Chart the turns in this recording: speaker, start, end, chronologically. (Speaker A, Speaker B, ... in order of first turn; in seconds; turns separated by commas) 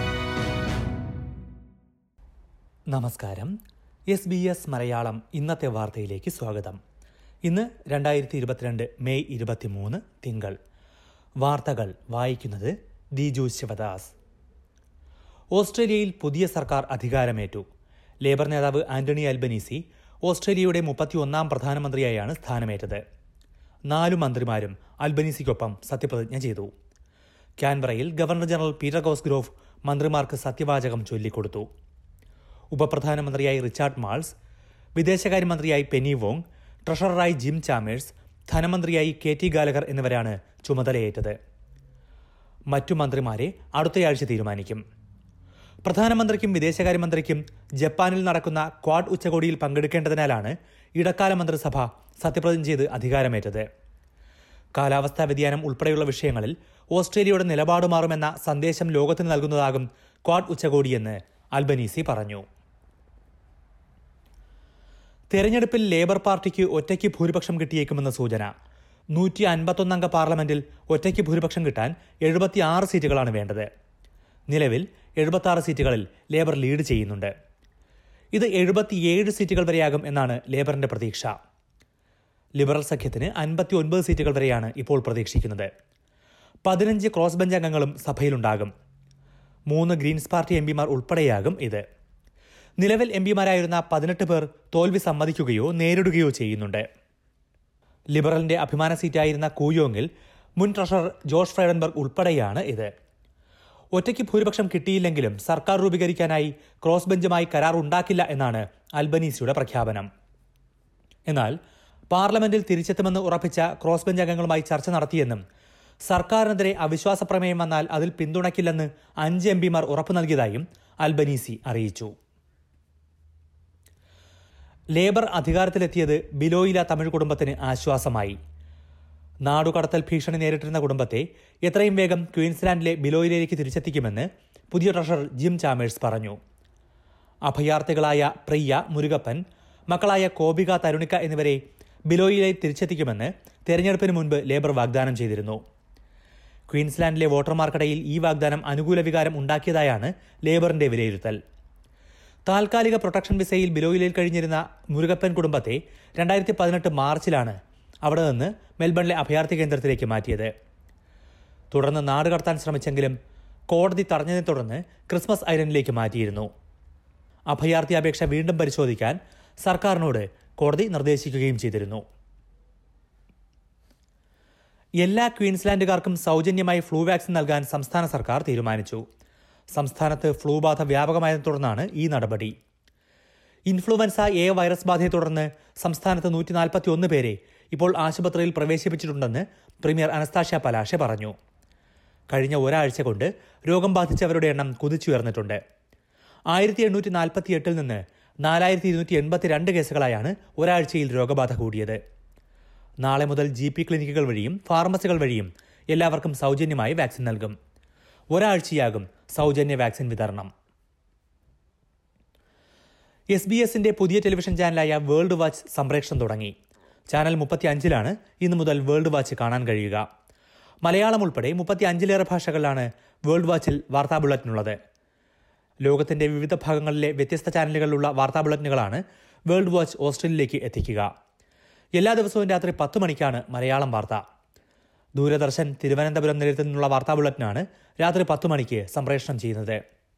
Speaker A: 2.9-3.5, Speaker A: 4.1-6.8, Speaker A: 7.4-10.6, Speaker A: 11.4-14.1, Speaker A: 15.5-17.6, Speaker A: 18.2-23.0, Speaker A: 23.9-26.7, Speaker A: 27.6-31.6, Speaker A: 32.7-34.3, Speaker A: 35.0-41.4, Speaker A: 42.7-44.8, Speaker A: 45.8-53.6, Speaker A: 54.7-62.4, Speaker A: 65.3-68.5, Speaker A: 69.1-73.7, Speaker A: 74.5-77.3, Speaker A: 78.3-81.3, Speaker A: 82.6-85.7, Speaker A: 86.6-88.7, Speaker A: 89.7-91.8, Speaker A: 92.8-96.8, Speaker A: 98.1-102.9, Speaker A: 103.9-110.1, Speaker A: 111.3-111.5, Speaker A: 112.1-115.4, Speaker A: 116.1-122.1, Speaker A: 125.0-128.3, Speaker A: 129.4-136.4, Speaker A: 137.4-145.6, Speaker A: 146.7-151.4, Speaker A: 152.5-160.5, Speaker A: 161.7-163.1, Speaker A: 163.7-166.5, Speaker A: 167.5-172.0, Speaker A: 175.0-179.0, Speaker A: 179.7-182.5, Speaker A: 183.7-191.3, Speaker A: 192.3-195.6, Speaker A: 196.5-202.0, Speaker A: 203.0-207.5, Speaker A: 208.3-210.5, Speaker A: 213.3-216.5, Speaker A: 217.1-220.0, Speaker A: 220.8-224.7, Speaker A: 225.8-231.1, Speaker A: 232.0-234.2, Speaker A: 235.2-239.8